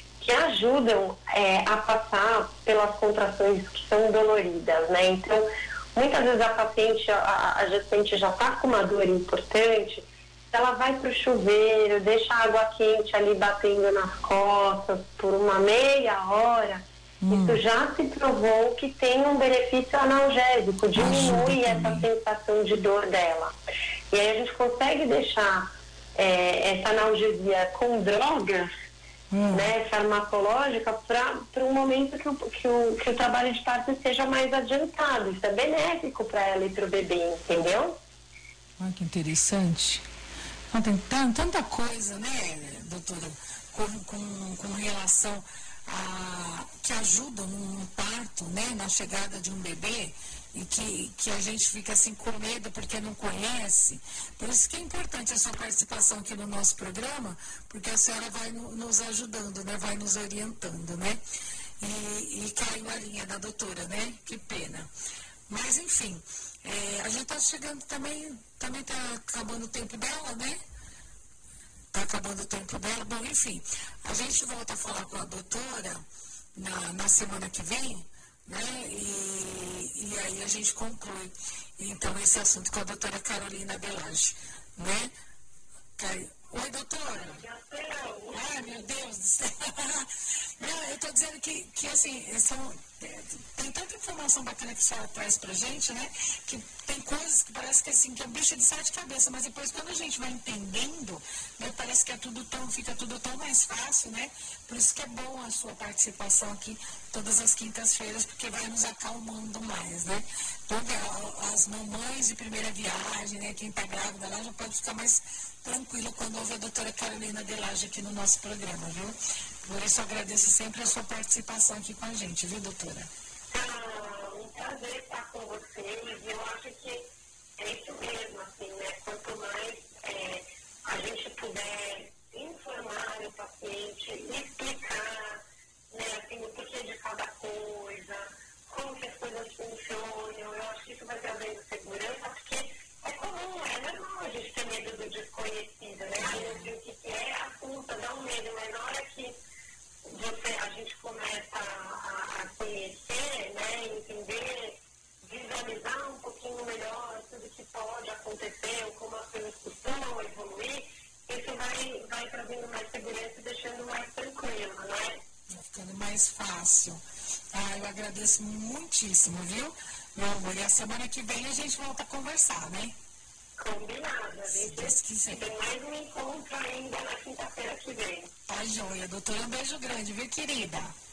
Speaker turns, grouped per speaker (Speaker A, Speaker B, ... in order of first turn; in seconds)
Speaker A: 0.2-23.5, 24.1-28.7, 29.5-38.0, 87.1-88.7, 123.5-127.0, 127.6-149.3, 150.1-165.2, 173.6-178.3
Speaker B: 17.2-17.6, 20.9-22.1, 29.3-29.7, 38.8-40.0, 40.7-61.2, 61.8-64.9, 65.5-70.6, 71.9-76.0, 76.5-85.1, 86.0-87.4, 88.3-123.1, 146.2-146.7, 165.5-167.0, 167.5-172.9, 174.5-175.5, 178.5-180.9